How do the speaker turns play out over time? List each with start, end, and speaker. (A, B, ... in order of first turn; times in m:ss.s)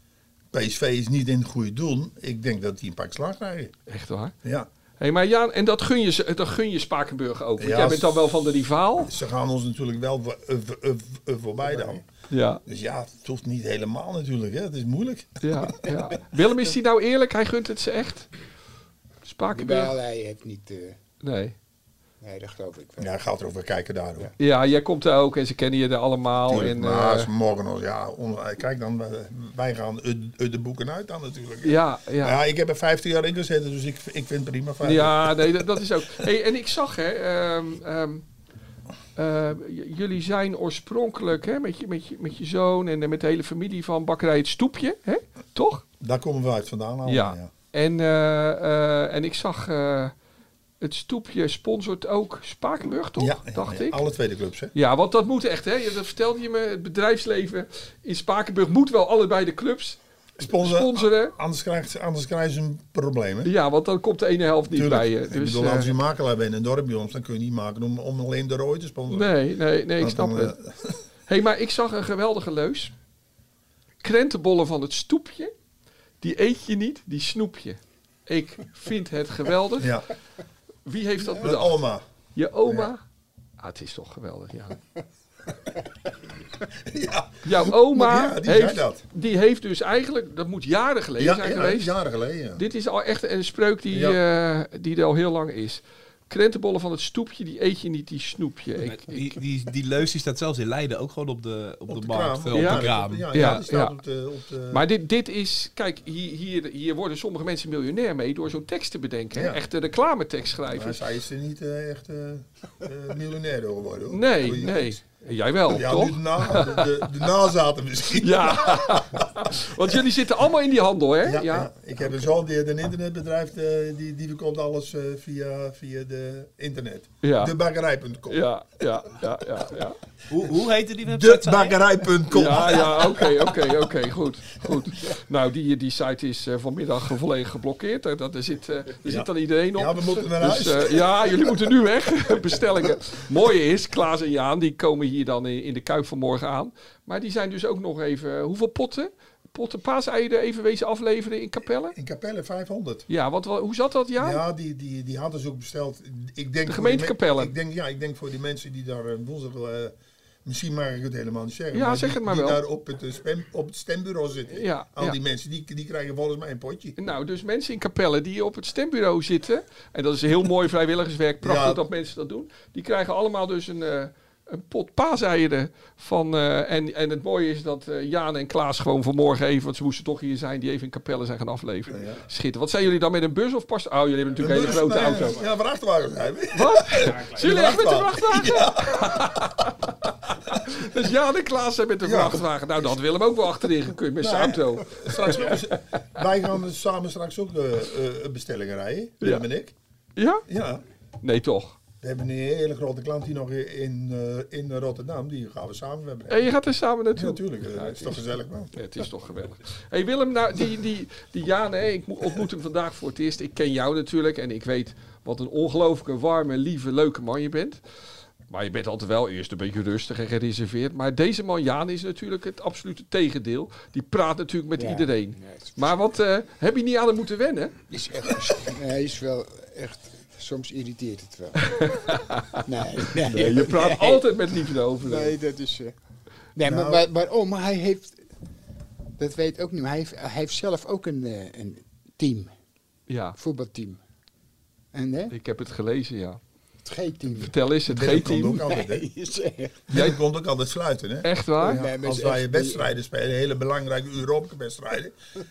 0:00.5-0:03.7 A
0:03.9-0:04.3 B
0:05.0-0:09.1 B
0:07.6-0:08.4 A
0:09.0-0:12.0 A
0:11.8-0:12.0 C
0:12.3-0:12.6 B
0:12.6-0:15.8 A
0:15.4-0:18.3 B
0:19.2-0:20.0 B
0:19.5-0:21.0 C
0:21.2-0:21.6 B
0:22.2-0:23.1 C
0:23.0-0:24.3 A
0:24.4-0:27.3 B
0:26.5-0:35.6 A
0:31.6-0:32.4 B
0:34.8-0:38.2 B
0:39.2-0:45.8 B
0:46.0-0:47.5 A
0:47.0-0:50.1 B
0:50.8-0:54.0 B
0:53.2-0:54.7 A
0:54.7-1:01.3 B
1:00.4-1:03.5 A
1:03.4-1:05.9 B
1:04.7-1:09.4 A
1:09.1-1:10.6 B
1:10.0-1:11.0 A
1:11.2-1:12.9 B
1:14.0-1:15.5 B
1:16.2-1:19.9 B
1:19.8-1:20.0 A
1:20.8-1:21.8 B
1:21.4-1:22.0 A
1:22.3-1:23.0 B
1:22.6-1:22.9 A
1:23.6-1:24.8 B
1:26.8-1:29.0 A
1:27.4-1:31.9 B
1:31.2-1:32.6 A
1:32.6-1:39.2 B
1:33.9-1:34.2 A
1:38.8-1:43.6 D
1:41.9-1:44.8 A
1:42.5-1:44.0 B
1:44.7-1:51.0 B
1:49.3-1:49.6 A
1:50.7-1:55.0 A
1:54.1-1:57.0 B
1:55.7-1:59.7 A
1:58.2-2:02.1 B
2:01.2-2:08.4 A
2:07.2-2:07.5 B
2:08.3-2:10.0 B
2:10.3-2:11.8 D
2:11.0-2:13.8 A
2:12.3-2:32.0 B
2:14.9-2:15.2 A
2:19.0-2:21.6 A
2:31.9-2:33.0 A
2:33.1-2:34.4 B
2:34.2-2:39.9 A
2:36.7-2:37.5 B
2:40.4-2:47.0 A
2:41.7-2:42.6 B
2:44.5-2:45.2 B
2:47.0-3:05.4 B
2:51.4-2:51.8 A
3:01.9-3:02.2 A
3:04.4-3:09.8 A
3:06.5-3:15.8 B
3:10.5-3:10.8 A
3:12.0-3:13.0 A
3:14.2-3:19.7 A
3:20.2-3:20.4 B
3:20.5-3:20.8 A
3:21.2-3:21.8 B
3:22.0-3:26.5 A
3:26.3-3:28.2 B
3:27.1-3:28.7 A
3:28.7-3:37.8 B
3:38.5-3:47.7 B
3:44.8-3:46.0 C
3:47.9-3:51.8 C
3:51.6-3:55.4 B
3:52.6-3:54.3 C
3:55.0-3:55.9 C
3:56.6-3:58.2 C
3:56.6-3:57.0 A
3:59.2-4:02.5 C
4:03.1-4:03.4 B
4:03.4-4:04.0 C
4:04.9-4:05.3 C
4:05.3-4:06.4 B
4:06.8-4:07.5 C
4:07.3-4:08.6 B
4:07.9-4:09.1 A
4:08.6-4:09.8 C
4:09.9-4:15.1 A
4:09.9-4:10.2 B
4:11.2-4:11.8 B
4:11.7-4:12.9 C